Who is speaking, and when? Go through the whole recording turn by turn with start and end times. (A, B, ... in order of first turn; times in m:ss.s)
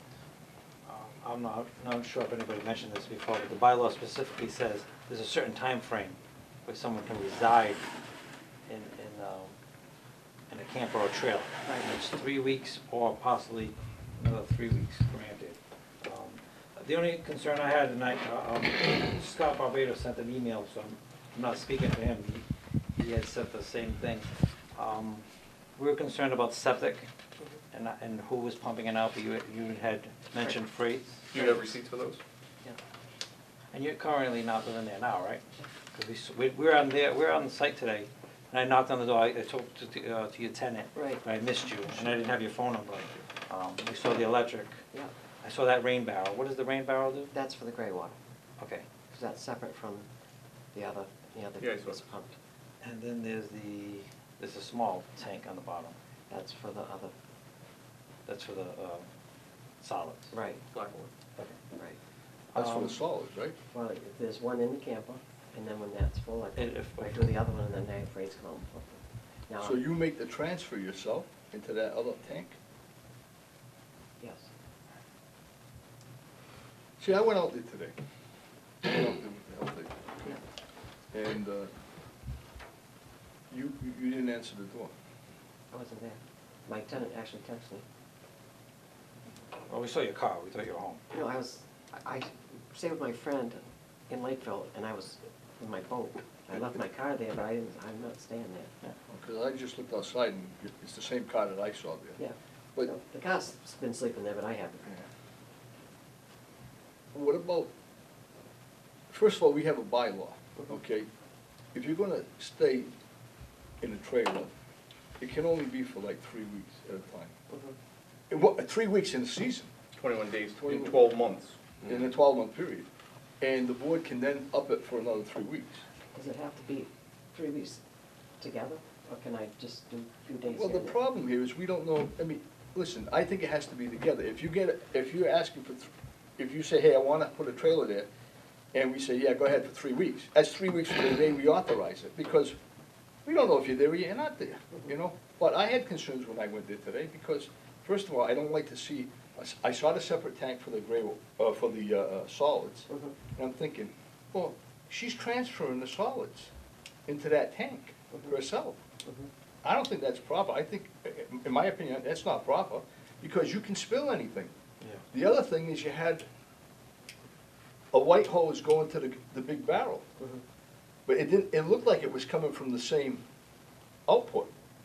0:00.8-0:07.8 A
0:08.7-0:09.6 A
0:10.5-0:22.4 A
0:11.7-0:11.9 B
0:23.0-0:25.2 A
0:25.8-0:27.1 A
0:27.7-0:31.3 A
0:31.3-0:32.2 C
0:33.7-0:44.8 A
0:41.0-0:41.2 B
0:45.4-0:47.3 A
0:47.3-0:48.2 B
0:48.6-0:48.9 A
0:49.1-0:50.1 B
0:50.7-0:52.4 B
0:51.6-0:52.1 C
0:52.8-0:56.0 A
0:56.3-0:57.1 B
0:58.3-0:59.1 A
0:59.8-1:00.3 A
1:00.3-1:00.6 B
1:00.7-1:01.1 C
1:01.7-1:02.0 B
1:02.5-1:03.0 A
1:02.6-1:03.6 D
1:03.7-1:09.8 B
1:06.6-1:07.4 A
1:09.6-1:12.6 D
1:14.2-1:14.5 B
1:17.0-1:18.0 D
1:18.8-1:20.4 D
1:21.1-1:21.7 D
1:23.5-1:24.9 D
1:25.7-1:27.8 B
1:29.7-1:31.0 A
1:31.1-1:38.7 B
1:39.1-1:42.2 D
1:42.2-1:45.0 B
1:47.1-1:47.7 D
1:49.1-1:51.1 D
1:51.7-1:52.9 D
1:53.8-1:54.5 D
1:55.2-1:57.3 D
1:57.5-1:57.8 B
1:58.3-1:59.7 D
2:00.0-2:01.7 C
2:00.6-2:01.0 D
2:01.8-2:02.9 D
2:03.4-2:05.8 D
2:06.1-2:07.8 B
2:08.4-2:11.0 B
2:10.5-2:18.1 D
2:18.7-2:22.6 D
2:23.2-2:36.5 D
2:37.1-2:38.8 D
2:39.6-2:44.5 D
2:45.1-2:46.3 D
2:47.9-2:50.1 D
2:51.1-2:53.2 D
2:54.1-2:54.5 D